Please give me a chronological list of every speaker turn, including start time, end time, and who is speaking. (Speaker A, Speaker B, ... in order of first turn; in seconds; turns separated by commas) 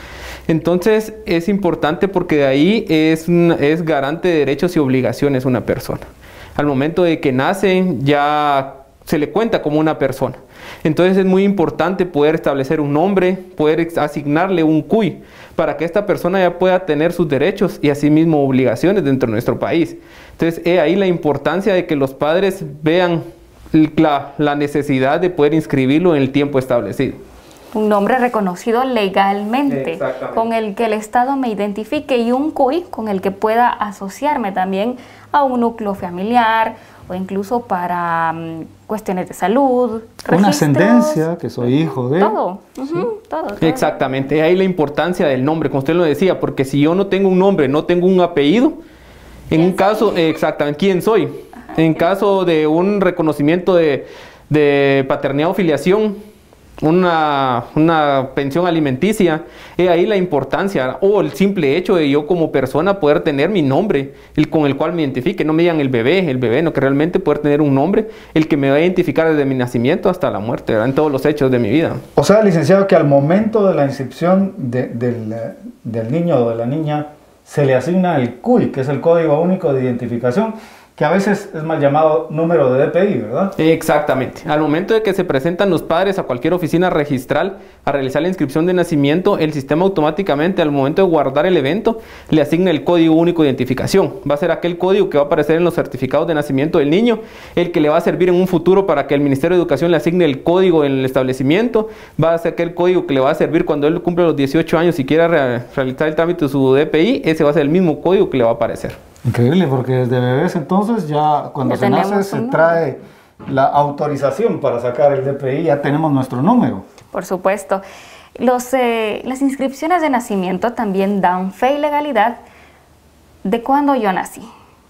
Speaker A: 0.5-27.2, Speaker B: 27.7-41.2, Speaker A: 29.7-30.4, Speaker C: 40.3-43.1, Speaker B: 42.1-44.0, Speaker A: 43.6-48.8, Speaker A: 49.5-56.2, Speaker B: 49.5-50.2, Speaker A: 56.8-72.0, Speaker C: 72.2-83.5, Speaker A: 83.6-109.0, Speaker C: 109.3-116.8, Speaker B: 111.6-112.8, Speaker B: 117.1-117.8, Speaker B: 118.4-122.4, Speaker B: 123.5-124.5